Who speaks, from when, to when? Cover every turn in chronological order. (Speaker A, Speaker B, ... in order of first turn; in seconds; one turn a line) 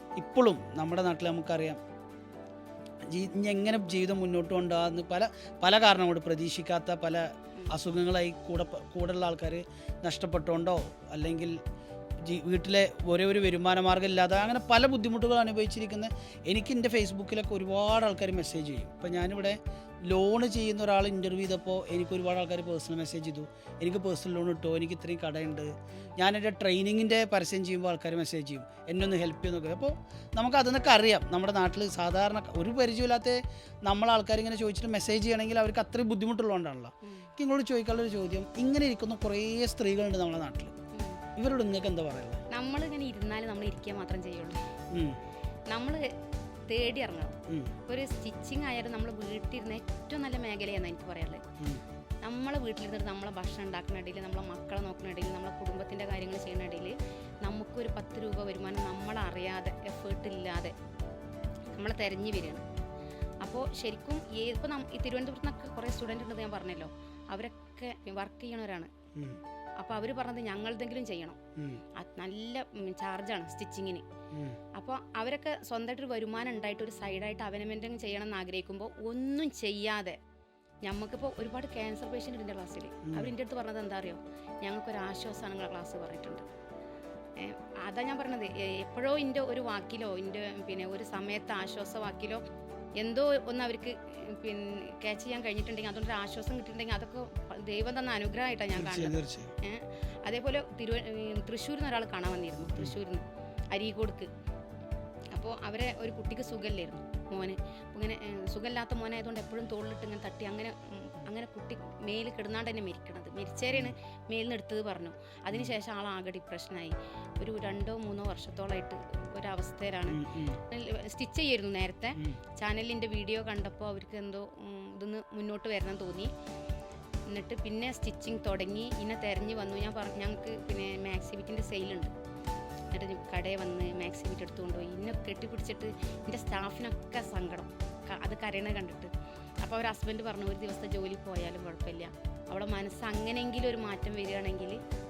Speaker A: 0.1-1.8
Speaker A: 3.1-11.6
Speaker A: 12.2-40.7
Speaker B: 40.9-41.2
Speaker A: 41.4-42.4
Speaker B: 42.5-44.6
Speaker A: 44.9-45.2
Speaker B: 45.7-46.1
Speaker B: 46.7-47.4
Speaker A: 47.5-47.7
Speaker B: 47.9-51.4
Speaker B: 52.2-60.7
Speaker B: 61.7-62.6
Speaker B: 63.4-68.9
Speaker B: 69.8-71.4
Speaker A: 71.6-71.8
Speaker B: 71.9-74.0
Speaker A: 74.3-74.6
Speaker B: 74.7-80.2
Speaker B: 80.8-86.4
Speaker A: 83.0-83.3
Speaker B: 87.4-92.4
Speaker B: 93.0-104.3
Speaker A: 98.7-99.5
Speaker B: 105.3-126.3
Speaker A: 120.1-120.6
Speaker B: 127.3-132.1
Speaker B: 132.9-139.1
Speaker B: 139.6-144.8